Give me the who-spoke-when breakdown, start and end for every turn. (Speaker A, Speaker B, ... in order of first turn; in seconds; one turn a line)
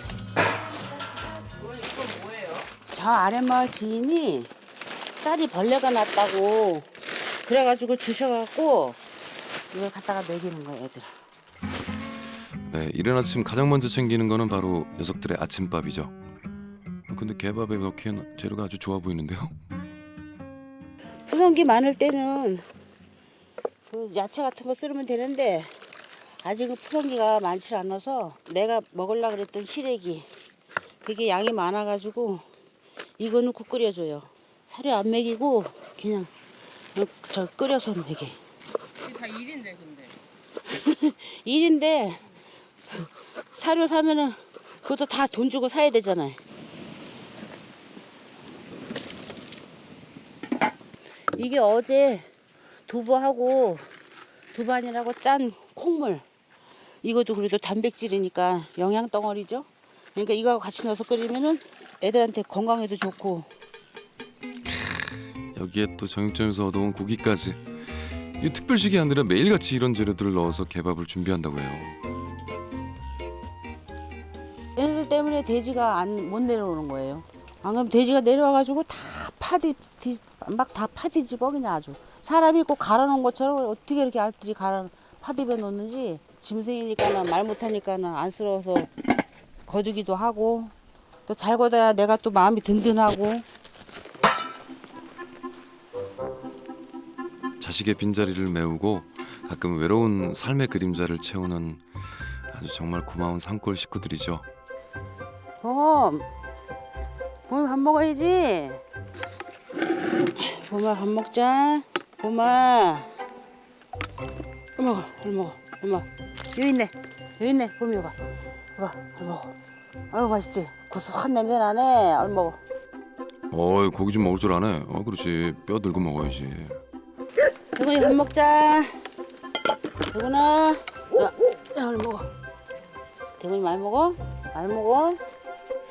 Speaker A: 1.5-2.6
Speaker B: 2.9-4.5
Speaker B: 5.2-6.9
Speaker B: 7.5-9.0
Speaker B: 9.7-11.1
Speaker C: 12.7-16.1
Speaker C: 17.1-19.6
Speaker B: 21.3-22.6
Speaker B: 23.9-25.7
Speaker B: 26.4-30.3
Speaker B: 31.0-32.4
Speaker B: 33.2-36.3
Speaker B: 37.0-38.4
Speaker A: 39.1-40.1
Speaker B: 40.7-42.2
Speaker B: 42.9-46.4
Speaker B: 51.3-52.3
Speaker B: 52.9-53.9
Speaker B: 54.5-56.2
Speaker B: 57.0-63.5
Speaker C: 65.5-67.6
Speaker C: 68.4-72.0
Speaker B: 74.8-88.9
Speaker B: 89.7-90.7
Speaker B: 91.3-93.5
Speaker C: 97.6-101.8
Speaker C: 102.5-104.5
Speaker B: 105.6-106.3
Speaker B: 107.5-108.8
Speaker B: 110.4-113.1
Speaker B: 114.8-118.2
Speaker B: 118.8-119.5
Speaker B: 120.1-122.6
Speaker C: 123.5-126.8
Speaker B: 127.8-128.9
Speaker B: 130.1-132.3
Speaker B: 133.4-135.2